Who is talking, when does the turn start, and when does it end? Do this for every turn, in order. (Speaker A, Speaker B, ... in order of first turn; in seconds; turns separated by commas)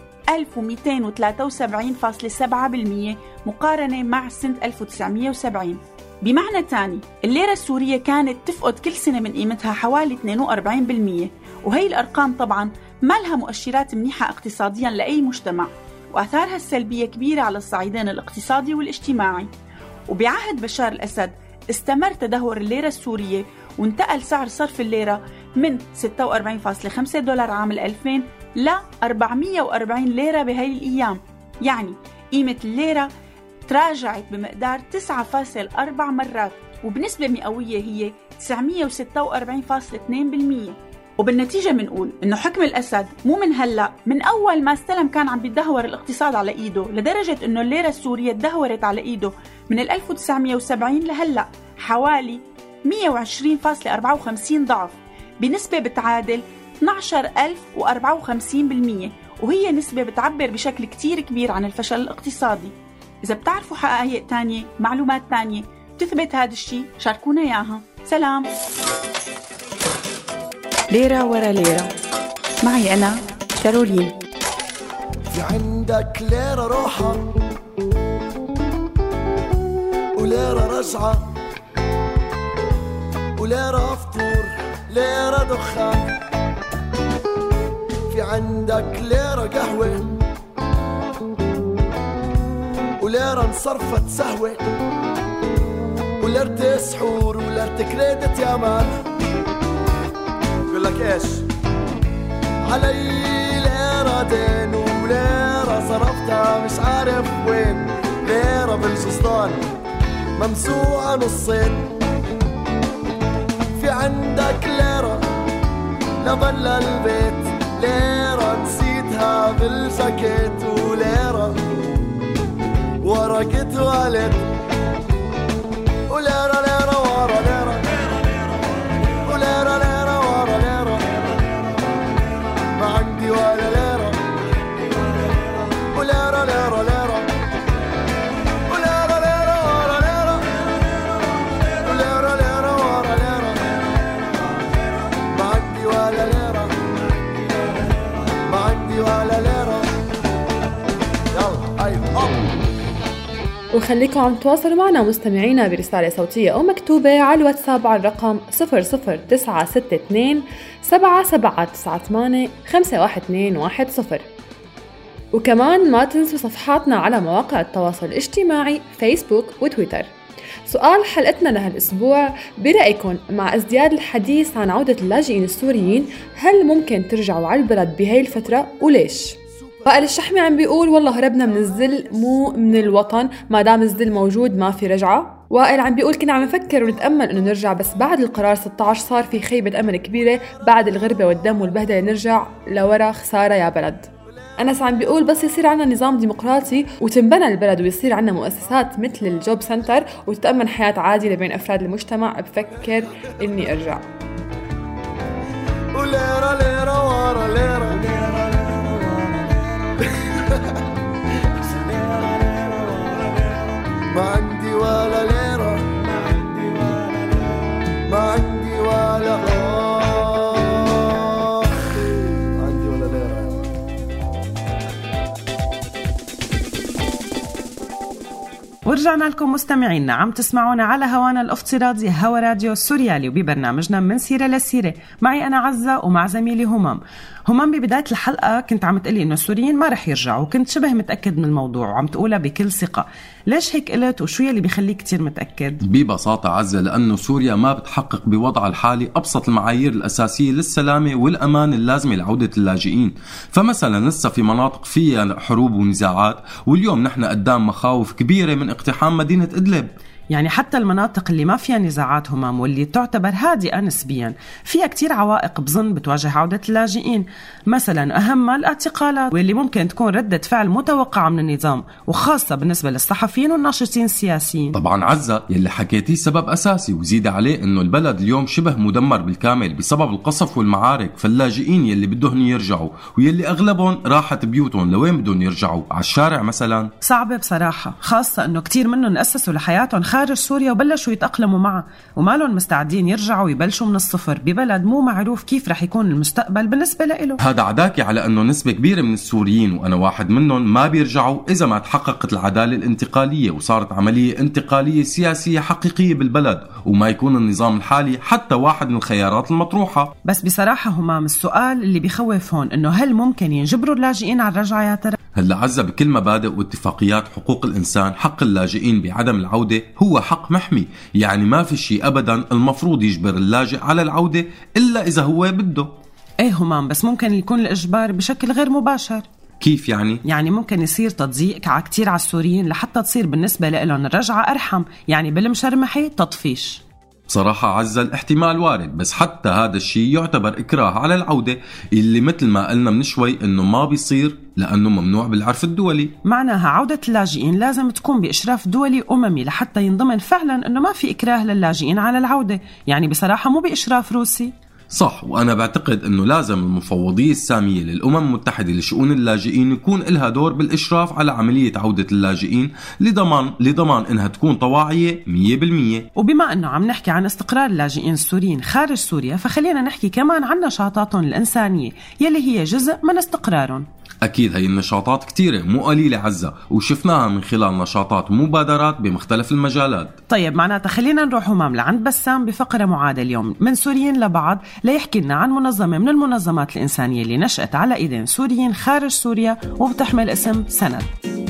Speaker A: 0.3-19.5, Speaker A: 20.1-33.1, Speaker A: 33.7-68.5, Speaker A: 70.9-71.9, Speaker A: 72.6-74.1, Speaker B: 75.3-77.2, Speaker B: 80.2-81.3, Speaker B: 83.4-86.1, Speaker B: 88.1-90.1, Speaker B: 93.0-94.7, Speaker B: 96.2-99.1, Speaker B: 100.7-101.4, Speaker B: 102.6-109.7, Speaker B: 110.4-111.9, Speaker B: 113.7-115.2, Speaker B: 116.2-121.6, Speaker B: 123.0-124.5, Speaker B: 126.1-128.0, Speaker B: 129.2-131.1, Speaker B: 132.7-134.2, Speaker B: 135.9-137.3, Speaker B: 138.7-140.4, Speaker B: 141.8-143.7, Speaker B: 145.3-146.7, Speaker B: 148.5-149.9, Speaker B: 151.3-152.5, Speaker C: 153.7-164.3, Speaker C: 165.3-170.1, Speaker C: 170.7-204.1, Speaker B: 205.9-209.3, Speaker B: 211.8-213.1, Speaker B: 214.1-216.0, Speaker B: 218.1-221.5, Speaker B: 222.5-223.6, Speaker D: 228.8-245.8, Speaker E: 245.8-259.9, Speaker D: 260.3-274.8, Speaker E: 274.7-286.9, Speaker D: 287.0-297.4, Speaker E: 297.4-310.1, Speaker D: 310.2-315.1, Speaker E: 315.3-325.9, Speaker D: 326.4-329.2, Speaker E: 329.6-330.2, Speaker D: 330.2-336.8, Speaker E: 337.3-346.1, Speaker D: 346.2-354.5, Speaker E: 354.9-366.1, Speaker D: 366.2-373.9, Speaker E: 374.2-380.1, Speaker D: 380.3-391.1